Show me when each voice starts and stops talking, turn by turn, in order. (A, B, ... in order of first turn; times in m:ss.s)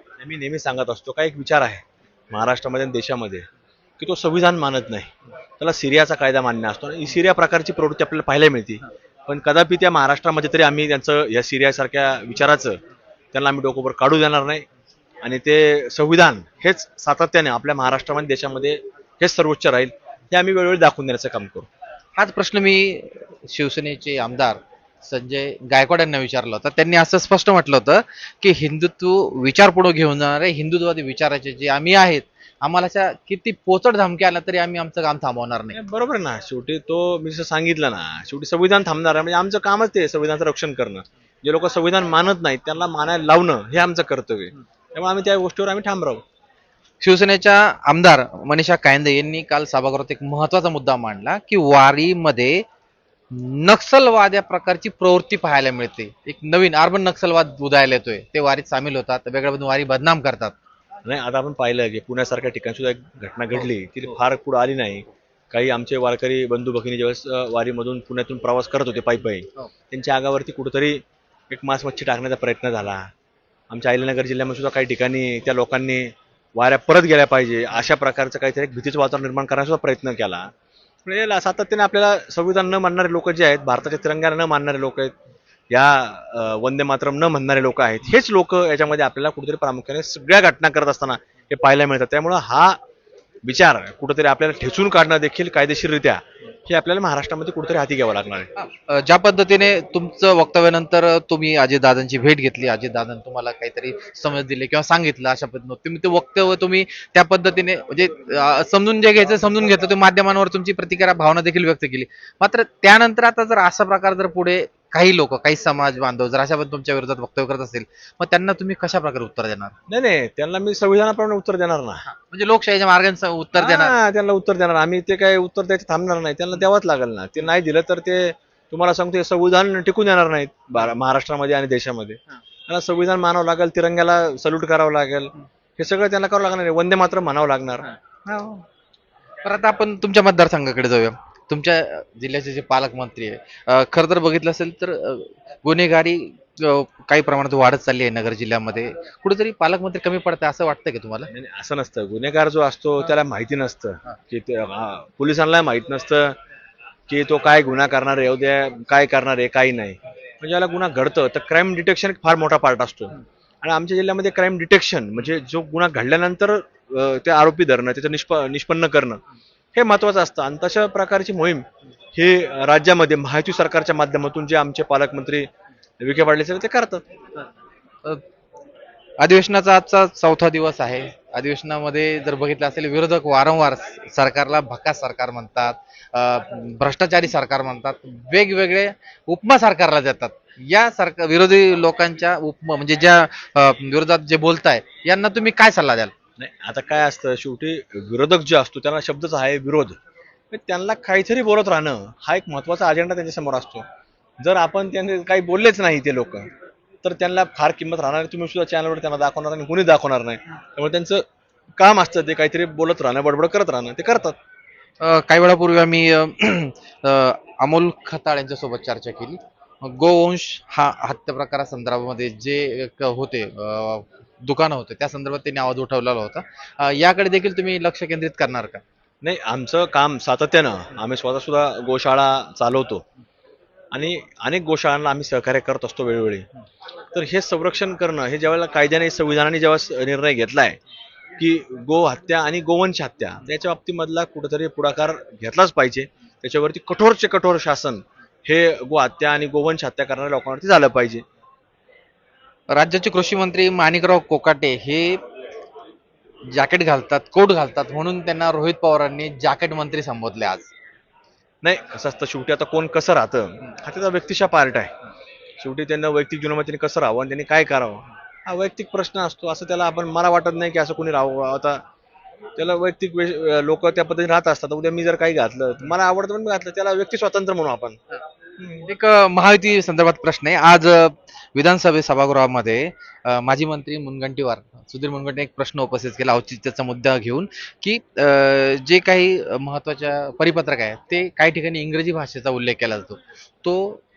0:00.2-0:03.4 A
0:04.0-0:12.8 A
0:13.3-0:14.6 A
0:15.2-0:21.7 A
0:22.2-0:35.8 B
0:35.7-0:46.2 A
0:47.0-0:52.6 B
0:53.3-1:00.6 B
1:01.0-1:13.1 A
1:13.7-1:20.5 A
1:21.0-1:25.1 A
1:25.7-1:32.8 A
1:33.4-1:38.5 A
1:38.6-1:59.7 B
1:59.9-2:02.0 A
2:02.1-2:04.0 B
2:03.6-2:17.9 A
2:18.2-2:18.6 B
2:19.4-2:31.3 B
2:31.3-2:36.4 A
2:37.1-2:49.2 A
2:49.7-2:51.6 A
2:52.1-2:55.5 A
2:56.0-2:57.0 A
2:59.2-3:16.1 B
3:16.4-3:20.0 A
3:20.5-3:23.8 A
3:24.4-3:26.5 A
3:27.0-3:31.2 A
3:31.8-3:34.4 A
3:35.0-3:48.8 B
3:49.2-3:53.0 A
3:53.9-3:56.4 A
3:57.1-4:00.8 A
4:01.4-4:11.2 A
4:12.7-4:15.2 B
4:16.6-4:20.7 B
4:21.6-4:24.9 A
4:25.6-4:31.8 A
4:32.6-4:38.0 A
4:38.6-4:38.9 A
4:38.9-4:54.0 B